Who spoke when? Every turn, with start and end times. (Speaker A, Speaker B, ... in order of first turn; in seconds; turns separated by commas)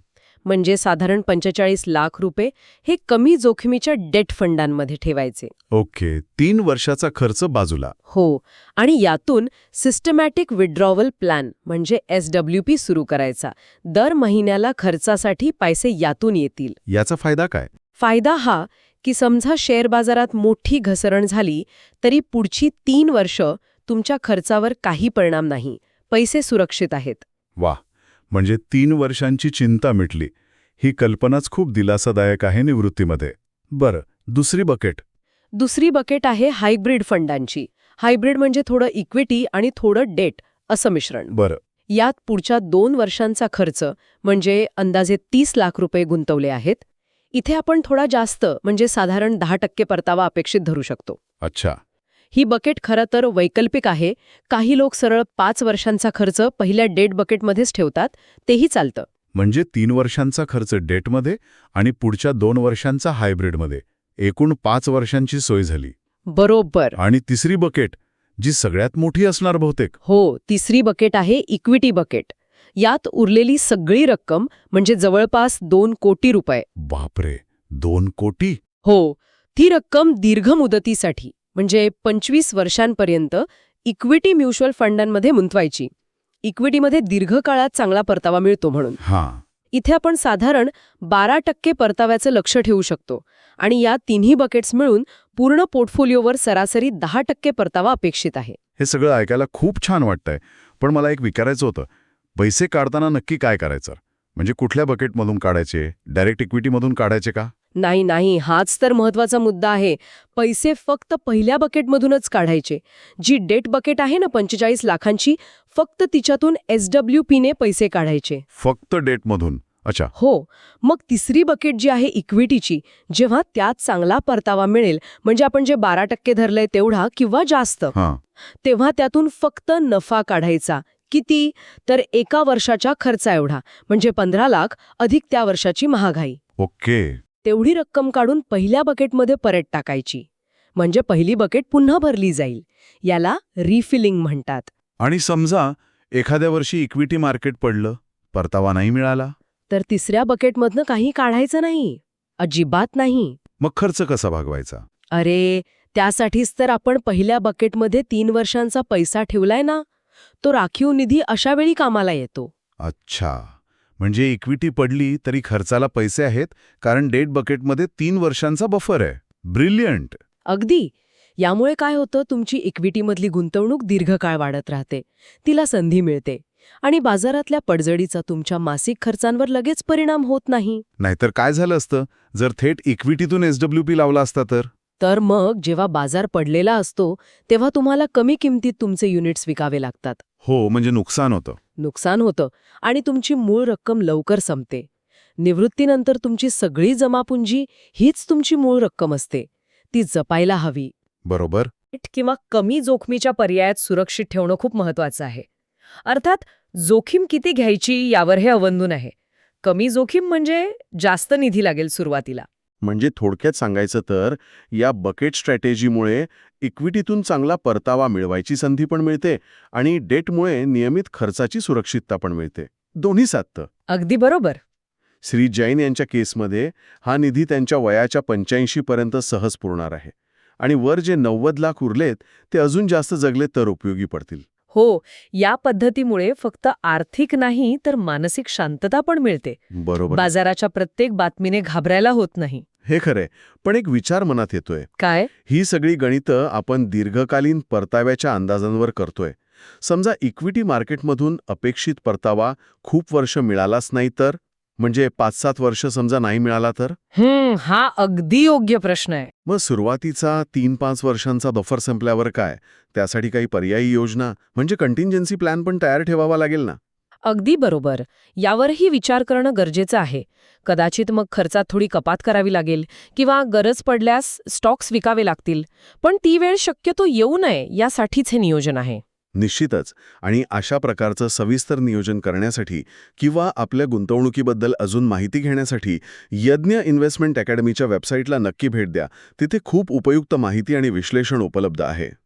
Speaker A: 0.5-5.5, Speaker B: 5.8-7.2, Speaker C: 5.9-7.9, Speaker A: 8.1-16.8, Speaker B: 16.9-17.2, Speaker C: 17.1-17.7, Speaker A: 18.0-27.2, Speaker B: 28.3-35.0, Speaker A: 35.5-41.3, Speaker A: 41.9-46.8, Speaker A: 47.3-51.2, Speaker B: 51.4-51.8, Speaker A: 52.3-59.1, Speaker B: 59.4-65.9, Speaker A: 66.3-67.0, Speaker B: 67.0-69.9, Speaker C: 67.3-67.8, Speaker C: 68.5-69.9, Speaker A: 70.0-76.7, Speaker B: 76.8-78.5, Speaker A: 78.8-85.9, Speaker A: 86.4-89.0, Speaker B: 89.0-89.4, Speaker A: 89.7-98.6, Speaker B: 98.8-107.5, Speaker A: 107.8-118.4, Speaker B: 118.6-120.1, Speaker A: 120.1-128.0, Speaker A: 128.5-136.4, Speaker B: 136.6-137.2, Speaker A: 137.4-144.7, Speaker B: 145.0-149.3, Speaker A: 149.7-153.4, Speaker B: 153.6-154.8, Speaker A: 155.1-159.8, Speaker A: 160.4-162.5, Speaker B: 162.8-163.5, Speaker B: 164.0-170.2, Speaker A: 170.5-180.8, Speaker B: 181.0-184.7, Speaker A: 185.0-190.2, Speaker B: 190.4-191.6, Speaker A: 191.8-194.9, Speaker A: 195.4-200.9, Speaker B: 201.3-201.7, Speaker A: 201.9-205.5, Speaker A: 206.1-212.5, Speaker C: 212.8-223.7, Speaker A: 223.9-224.6, Speaker C: 225.2-234.4, Speaker A: 234.7-242.6, Speaker C: 239.7-240.3, Speaker C: 242.9-244.9, Speaker A: 245.0-245.3, Speaker C: 245.5-257.0, Speaker A: 257.1-259.3, Speaker C: 259.5-266.8, Speaker A: 267.2-279.0, Speaker C: 279.4-292.1